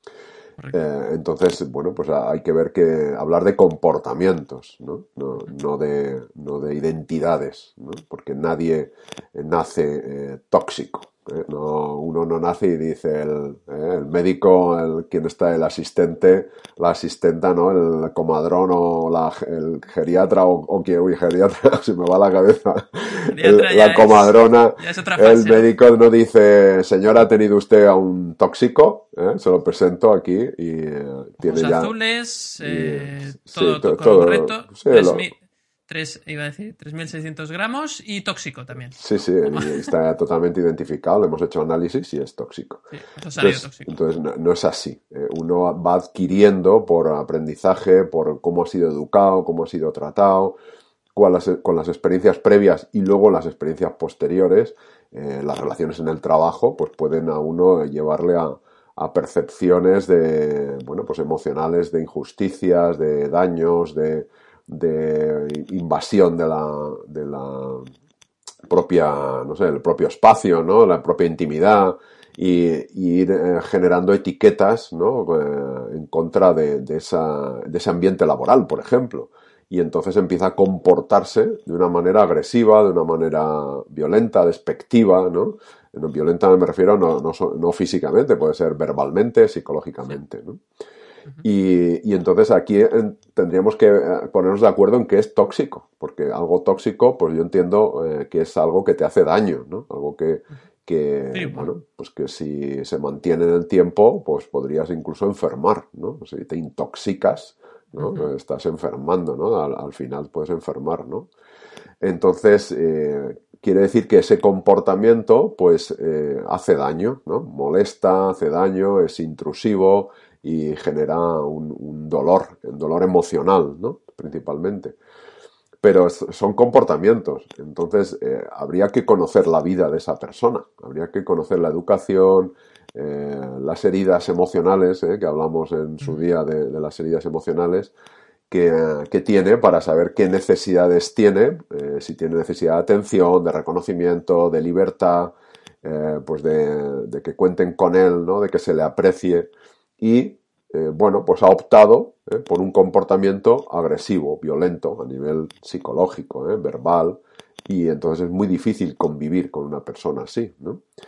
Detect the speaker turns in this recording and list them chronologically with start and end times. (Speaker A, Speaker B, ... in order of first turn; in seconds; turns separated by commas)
Speaker A: 0.7-31.9, Speaker B: 23.3-25.7, Speaker B: 31.4-35.4, Speaker A: 32.6-35.2, Speaker B: 35.9-39.9, Speaker A: 39.0-42.9, Speaker B: 42.9-43.9, Speaker A: 43.4-50.6, Speaker A: 51.1-67.9, Speaker A: 68.7-90.6, Speaker A: 91.4-111.3, Speaker B: 101.3-101.7, Speaker B: 108.0-108.3, Speaker A: 112.0-125.0, Speaker A: 125.8-137.9, Speaker A: 138.5-160.8